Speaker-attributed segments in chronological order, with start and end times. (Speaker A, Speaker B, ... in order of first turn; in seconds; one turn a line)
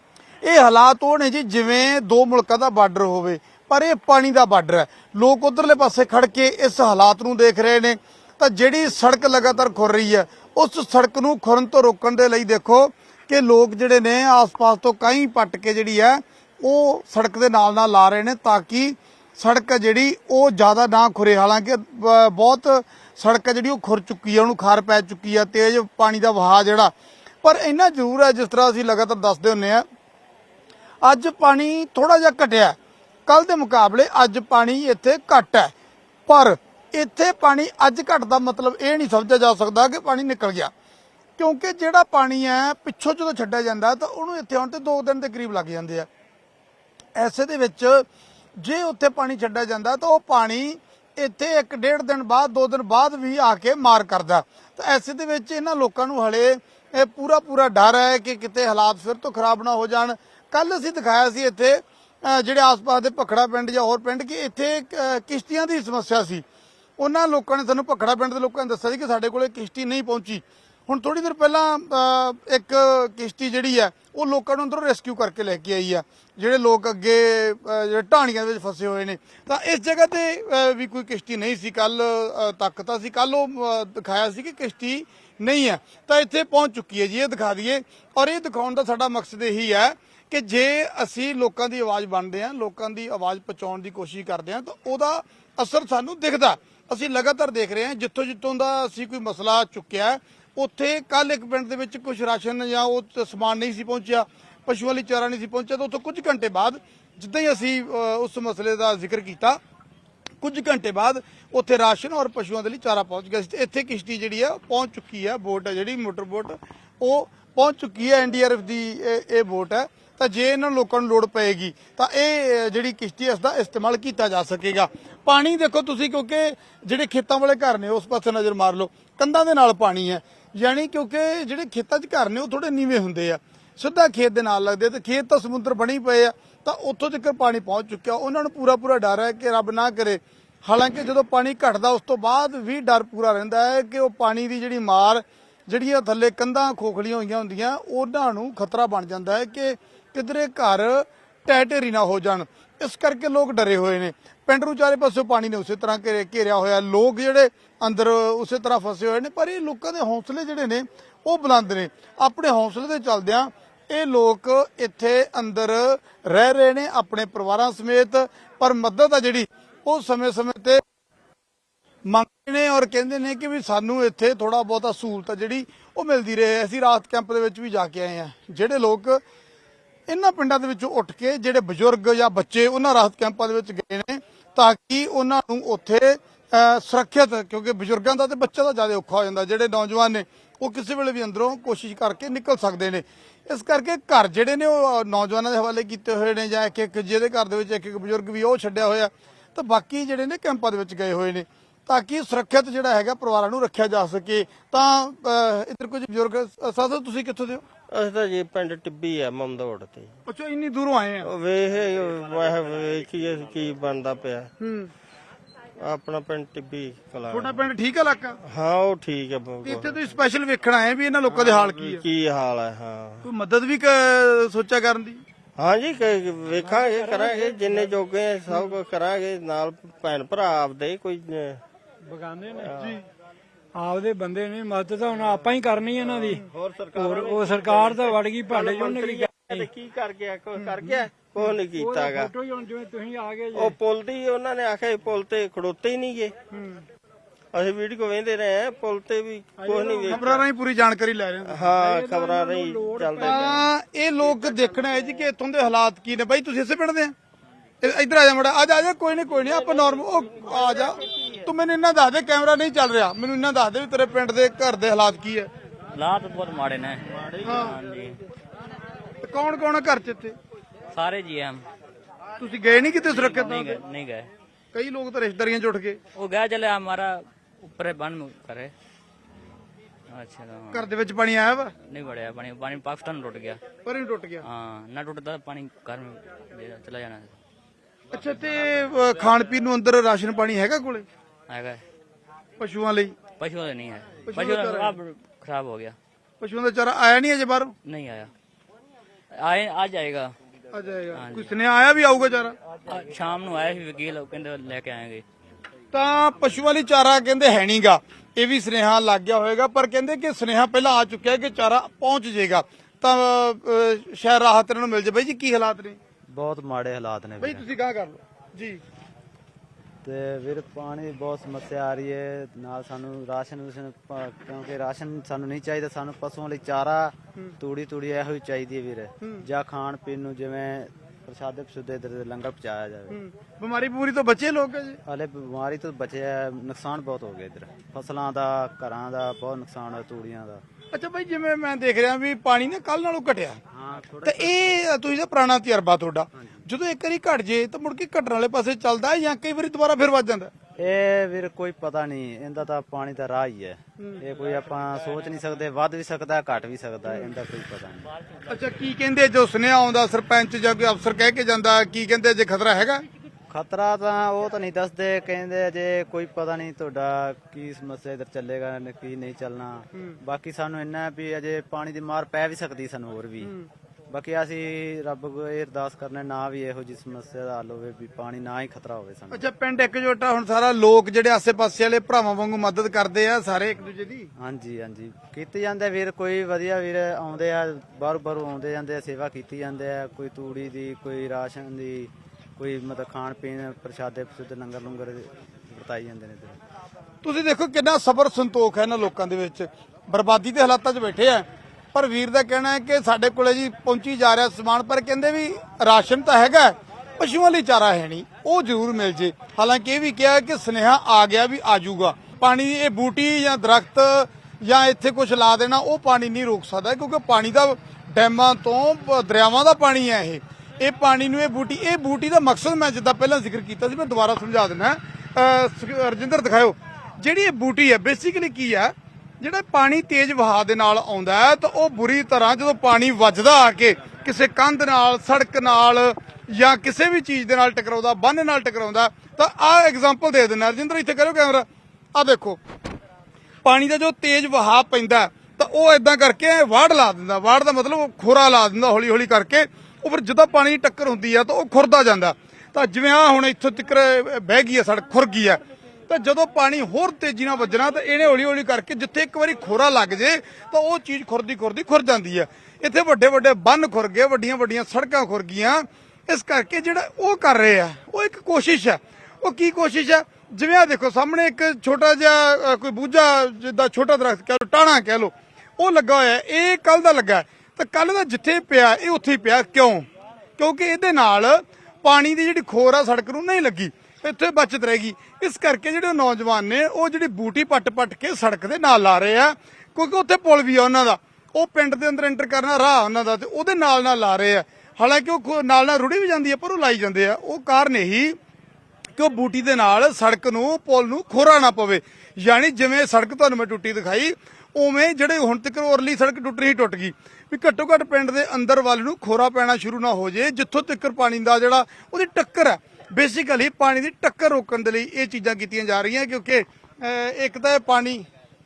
Speaker A: 0.4-29.9
Speaker A: 31.0-32.8
Speaker A: 33.3-35.7
Speaker A: 36.3-40.7
Speaker A: 41.4-46.1
Speaker A: 47.1-48.1
Speaker A: 48.6-66.5
Speaker A: 67.0-109.6
Speaker A: 110.4-170.8
Speaker A: 172.1-179.2
Speaker A: 180.1-207.6
Speaker B: 207.9-210.2
Speaker A: 210.3-211.3
Speaker B: 211.2-214.5
Speaker A: 214.6-214.9
Speaker B: 215.8-217.6
Speaker A: 217.3-218.4
Speaker B: 218.5-220.1
Speaker A: 219.6-222.0
Speaker B: 221.3-223.2
Speaker A: 223.2-225.2
Speaker B: 225.6-231.6
Speaker C: 232.1-232.7
Speaker B: 232.6-233.0
Speaker C: 233.8-239.6
Speaker B: 236.0-242.3
Speaker C: 241.6-243.7
Speaker B: 243.6-246.3
Speaker A: 246.5-246.8
Speaker B: 247.5-250.4
Speaker C: 249.6-250.4
Speaker A: 250.1-251.6
Speaker B: 251.5-253.7
Speaker C: 251.7-253.6
Speaker A: 253.2-257.1
Speaker A: 257.8-265.5
Speaker B: 259.8-261.3
Speaker D: 265.9-268.2
Speaker A: 267.4-267.8
Speaker A: 269.2-270.4
Speaker D: 270.9-271.6
Speaker A: 272.4-273.8
Speaker D: 273.1-274.3
Speaker A: 274.7-276.0
Speaker D: 276.1-278.7
Speaker D: 280.1-280.9
Speaker A: 280.7-281.7
Speaker D: 281.9-283.6
Speaker A: 283.9-284.4
Speaker D: 284.4-287.4
Speaker A: 288.1-291.1
Speaker D: 291.5-291.8
Speaker A: 292.6-293.1
Speaker D: 293.4-296.0
Speaker A: 294.3-295.0
Speaker A: 296.4-297.7
Speaker D: 297.9-298.3
Speaker D: 299.4-300.3
Speaker A: 300.7-302.6
Speaker D: 301.1-301.5
Speaker D: 302.9-305.2
Speaker A: 305.9-316.0
Speaker E: 316.3-317.7
Speaker A: 317.4-318.8
Speaker E: 320.0-333.2
Speaker A: 333.1-335.0
Speaker E: 335.1-340.6
Speaker A: 340.9-343.6
Speaker E: 343.7-344.8
Speaker A: 344.2-350.5
Speaker E: 346.3-346.6
Speaker E: 350.8-358.1
Speaker A: 358.5-363.0
Speaker E: 363.5-373.6
Speaker A: 373.4-373.7
Speaker E: 374.1-379.5
Speaker A: 379.3-384.3
Speaker E: 384.4-396.6
Speaker A: 397.2-442.6
Speaker A: 443.6-480.1
Speaker A: 480.6-498.4
Speaker A: 499.2-518.2